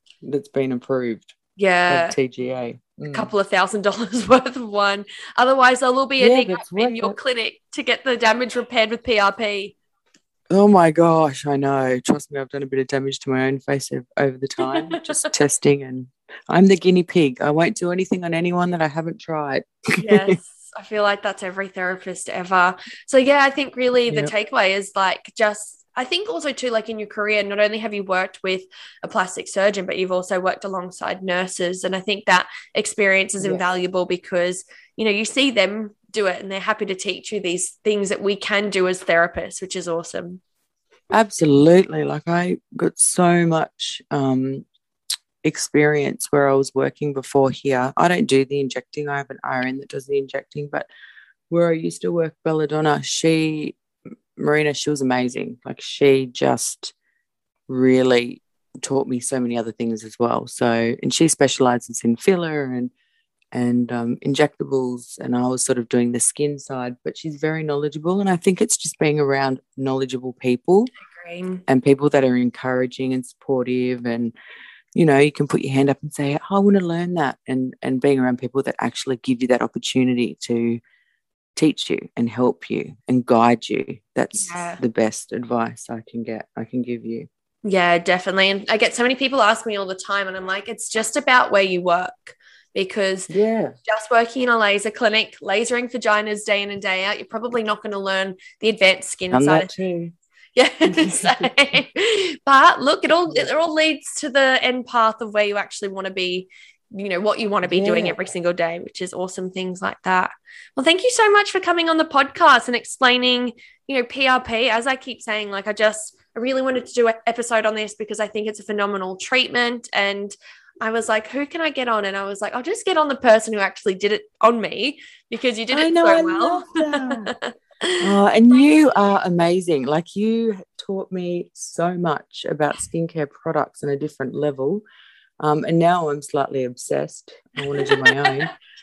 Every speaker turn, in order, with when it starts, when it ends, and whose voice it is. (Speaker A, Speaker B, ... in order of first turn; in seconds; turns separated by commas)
Speaker A: 0.2-1.3, Speaker B: 1.6-2.2, Speaker A: 1.9-3.3, Speaker B: 3.1-9.8, Speaker A: 6.2-7.2, Speaker A: 10.5-20.3, Speaker B: 14.6-15.3, Speaker B: 20.0-40.4, Speaker A: 41.1-44.6, Speaker A: 45.4-50.9, Speaker A: 51.5-53.8, Speaker A: 54.4-56.9, Speaker A: 57.7-62.9, Speaker A: 63.5-70.9, Speaker B: 71.1-71.6, Speaker A: 71.7-74.3, Speaker A: 74.9-80.8, Speaker A: 81.5-87.3, Speaker B: 84.3-84.8, Speaker B: 87.6-93.3, Speaker A: 93.3-93.7, Speaker B: 93.8-99.7, Speaker A: 99.3-100.1, Speaker B: 100.5-128.1, Speaker A: 100.8-101.5, Speaker A: 107.6-108.2, Speaker A: 125.7-127.3, Speaker A: 128.0-134.8, Speaker A: 135.4-138.5, Speaker B: 137.7-138.4